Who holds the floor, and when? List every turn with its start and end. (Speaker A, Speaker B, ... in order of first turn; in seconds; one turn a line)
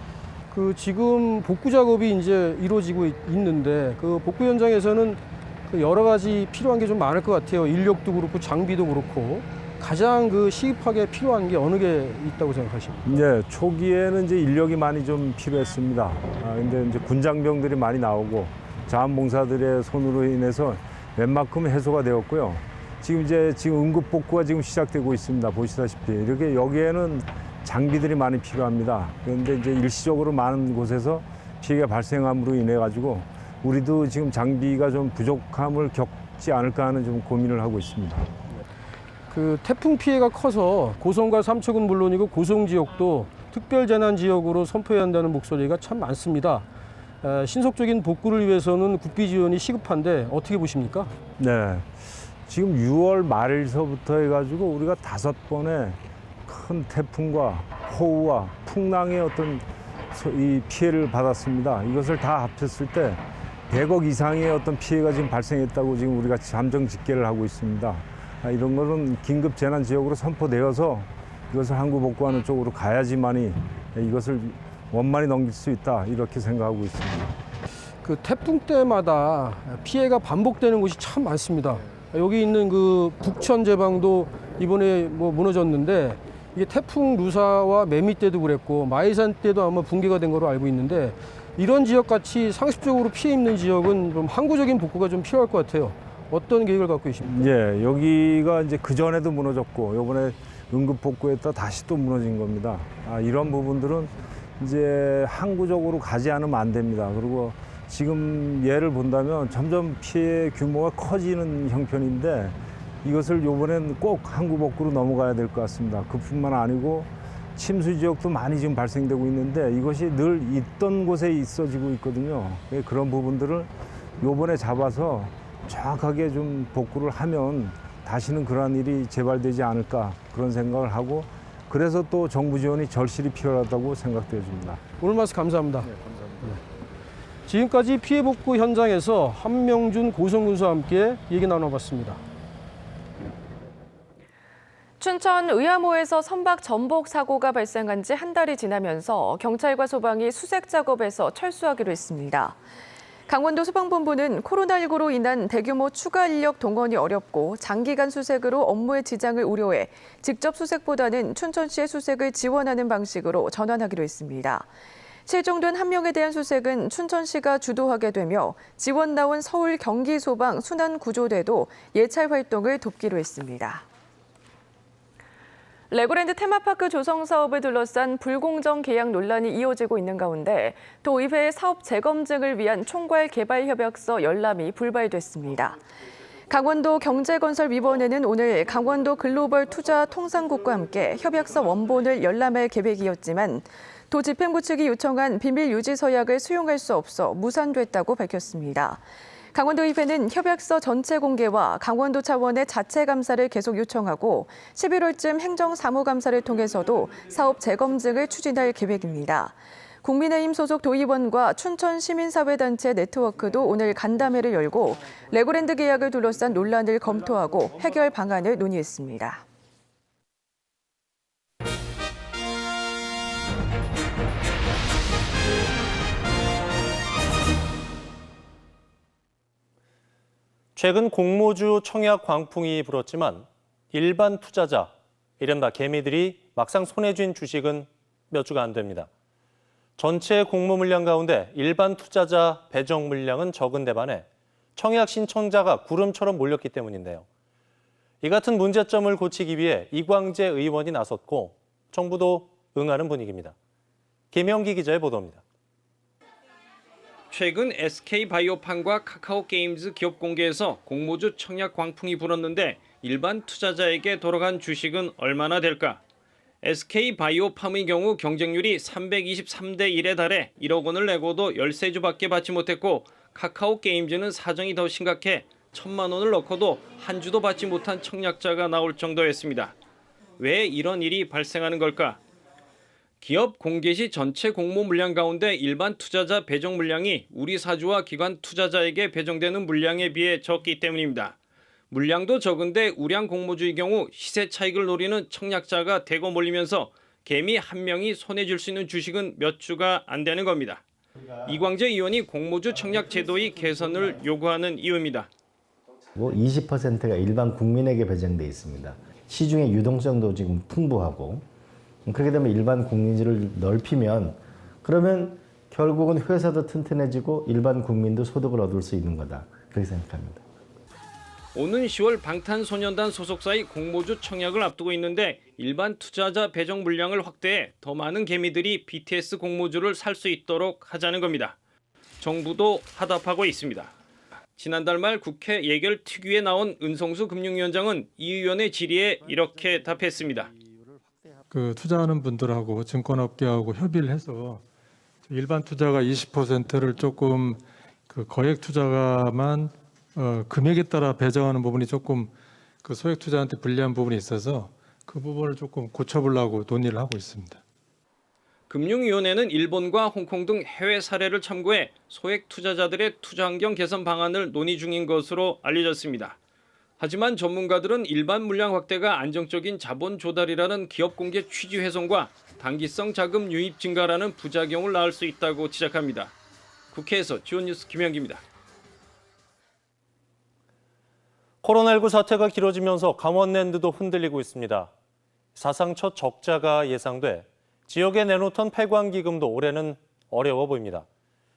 Speaker A: 0.5-13.2
Speaker B: 13.0-38.3
Speaker A: 39.3-46.6
Speaker A: 47.2-51.2
Speaker B: 51.4-77.4
Speaker A: 78.0-97.5
Speaker B: 97.2-134.8
Speaker A: 135.0-136.6
Speaker A: 137.4-142.2
Speaker C: 145.0-152.6
Speaker C: 153.3-164.7
Speaker C: 165.2-173.8
Speaker C: 175.9-185.8
Speaker C: 186.5-219.4
Speaker D: 230.7-239.1
Speaker D: 240.0-247.2
Speaker D: 248.2-253.5
Speaker D: 254.3-255.4
Speaker E: 257.3-266.0
Speaker E: 266.6-279.8
Speaker E: 280.4-282.2
Speaker E: 283.2-291.4
Speaker E: 291.9-300.8
Speaker E: 301.4-305.3
Speaker F: 306.1-311.4
Speaker F: 312.1-320.4
Speaker E: 321.5-331.6
Speaker E: 332.2-333.9
Speaker E: 334.6-340.5
Speaker G: 341.5-344.6
Speaker G: 345.3-352.3
Speaker G: 352.8-357.6
Speaker E: 358.7-366.4
Speaker E: 367.0-376.3
Speaker E: 376.9-378.4
Speaker D: 381.6-384.9
Speaker D: 385.5-391.1